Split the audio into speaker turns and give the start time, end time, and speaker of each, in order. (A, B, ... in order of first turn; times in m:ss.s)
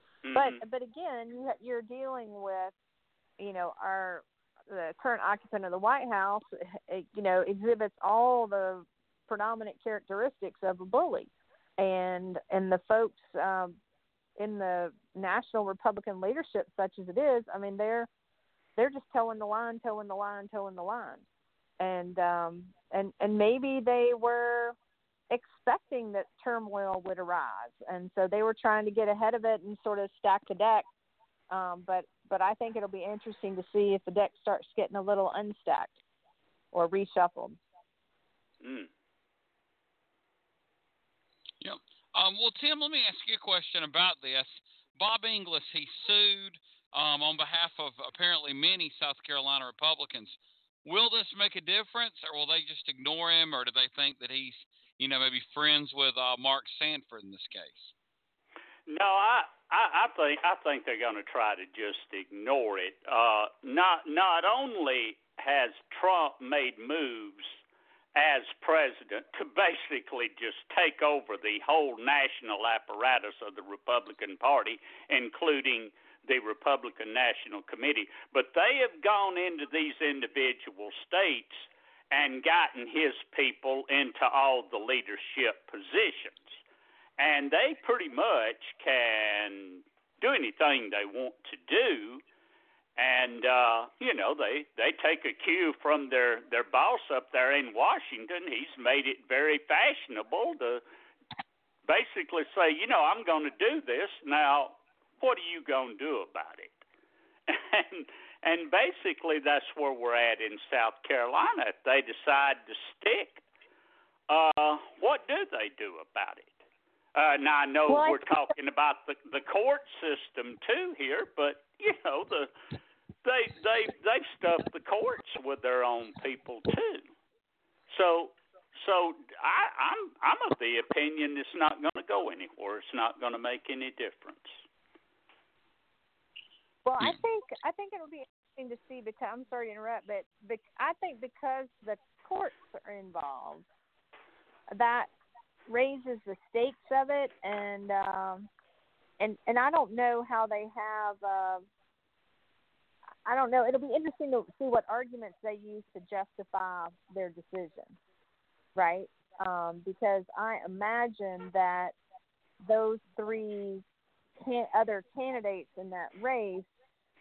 0:00.2-0:00.6 A
0:00.3-0:02.7 B
0:03.4-0:13.8 B
0:14.4-0:18.1 B
0:18.8-0:21.2 B
0:21.8-0:24.7 B
0:25.3-0:30.9 B
0:31.5-0:36.0 B
0:36.7-0:37.6 B
0:38.6-0:38.9 A
0:41.6-0:57.9 C
0:58.9-1:07.6 A
1:08.1-1:26.6 A
1:27.2-1:32.2 A
1:33.0-1:40.8 A
1:41.8-1:46.8 A
1:47.5-1:53.4 A
1:54.3-1:56.5 A
1:57.1-2:02.5 A
1:57.9-1:58.2 B
2:03.2-2:07.1 A
2:07.9-2:14.6 A
2:16.8-2:23.7 B
2:24.7-2:25.1 B
2:25.7-2:28.5 B
2:29.2-2:31.6 B
2:33.2-2:38.0 B
2:38.7-2:42.0 B
2:42.6-2:43.8 B
2:44.4-2:46.7 B